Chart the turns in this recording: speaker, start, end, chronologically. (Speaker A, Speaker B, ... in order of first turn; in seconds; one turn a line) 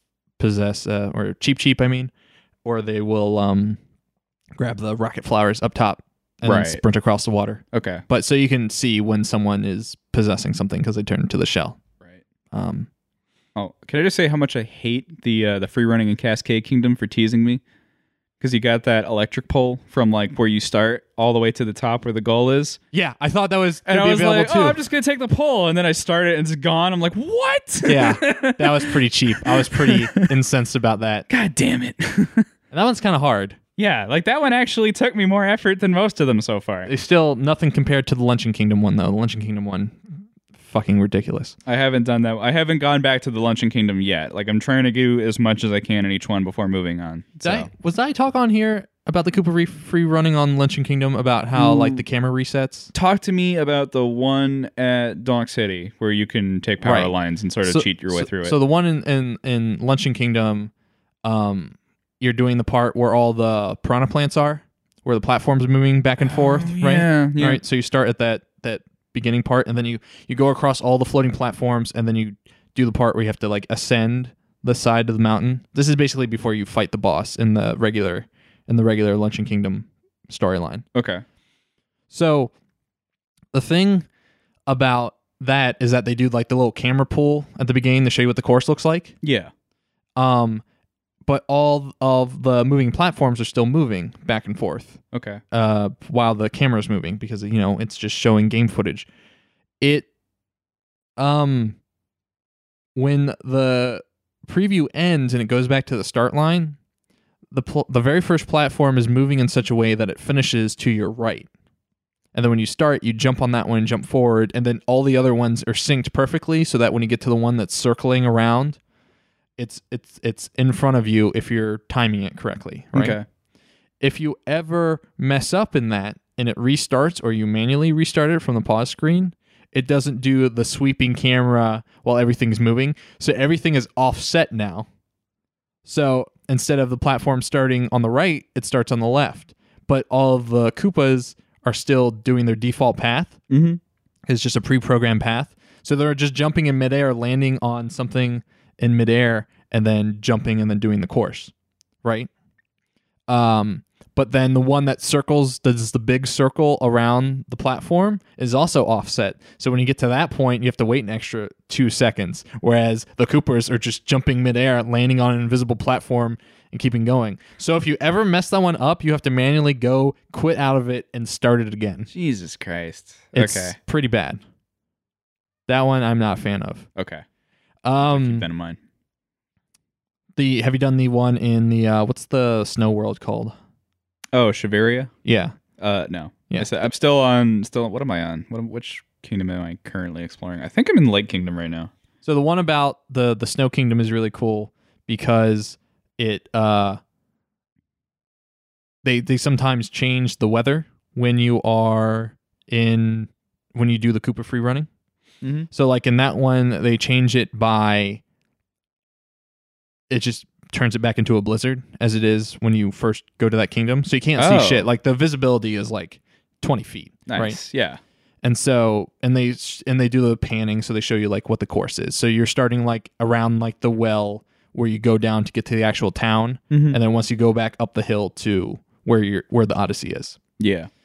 Speaker A: 0.4-2.1
Speaker A: 2.6-3.8
Speaker A: 4.6-11.8
Speaker B: 6.4-6.8
Speaker B: 7.7-8.0
Speaker A: 12.5-12.9
Speaker B: 13.5-17.6
Speaker B: 18.4-22.8
Speaker A: 22.9-24.8
Speaker B: 23.9-30.3
Speaker A: 27.9-31.2
Speaker B: 31.3-32.5
Speaker A: 32.7-33.6
Speaker B: 33.8-36.9
Speaker A: 36.9-40.0
Speaker A: 40.6-41.5
Speaker B: 41.7-47.7
Speaker A: 47.4-52.9
Speaker B: 51.5-52.0
Speaker B: 52.9-58.5
Speaker A: 56.8-60.7
Speaker A: 61.2-80.8
Speaker B: 66.2-67.6
Speaker B: 80.9-81.2
Speaker A: 82.1-82.5
Speaker A: 83.5-84.1
Speaker A: 84.7-89.1
Speaker B: 89.2-89.5
Speaker A: 90.2-90.6
Speaker A: 91.2-95.0
Speaker B: 95.1-95.4
Speaker A: 95.5-99.1
Speaker A: 99.8-100.1
Speaker A: 101.2-101.8
Speaker A: 103.0-106.8
Speaker A: 107.5-111.5
Speaker A: 112.3-118.8
Speaker A: 119.6-123.2
Speaker B: 122.9-123.2
Speaker A: 124.0-134.8
Speaker A: 135.8-143.4
Speaker B: 143.5-143.8
Speaker A: 144.3-151.5
Speaker A: 152.0-152.3
Speaker A: 153.3-172.1
Speaker B: 172.1-173.8
Speaker A: 173.3-174.4
Speaker A: 175.7-176.8
Speaker B: 176.9-177.2
Speaker A: 177.8-178.4
Speaker B: 178.0-178.8
Speaker A: 180.3-183.5
Speaker B: 184.3-185.1
Speaker A: 185.2-185.6
Speaker B: 185.8-191.9
Speaker A: 186.5-186.9
Speaker A: 192.2-197.0
Speaker A: 199.0-204.9
Speaker B: 205.4-205.7
Speaker A: 205.7-208.2
Speaker A: 210.1-217.6
Speaker B: 214.4-214.9
Speaker B: 217.3-218.0
Speaker A: 218.4-230.4
Speaker B: 226.7-227.0
Speaker B: 230.6-230.9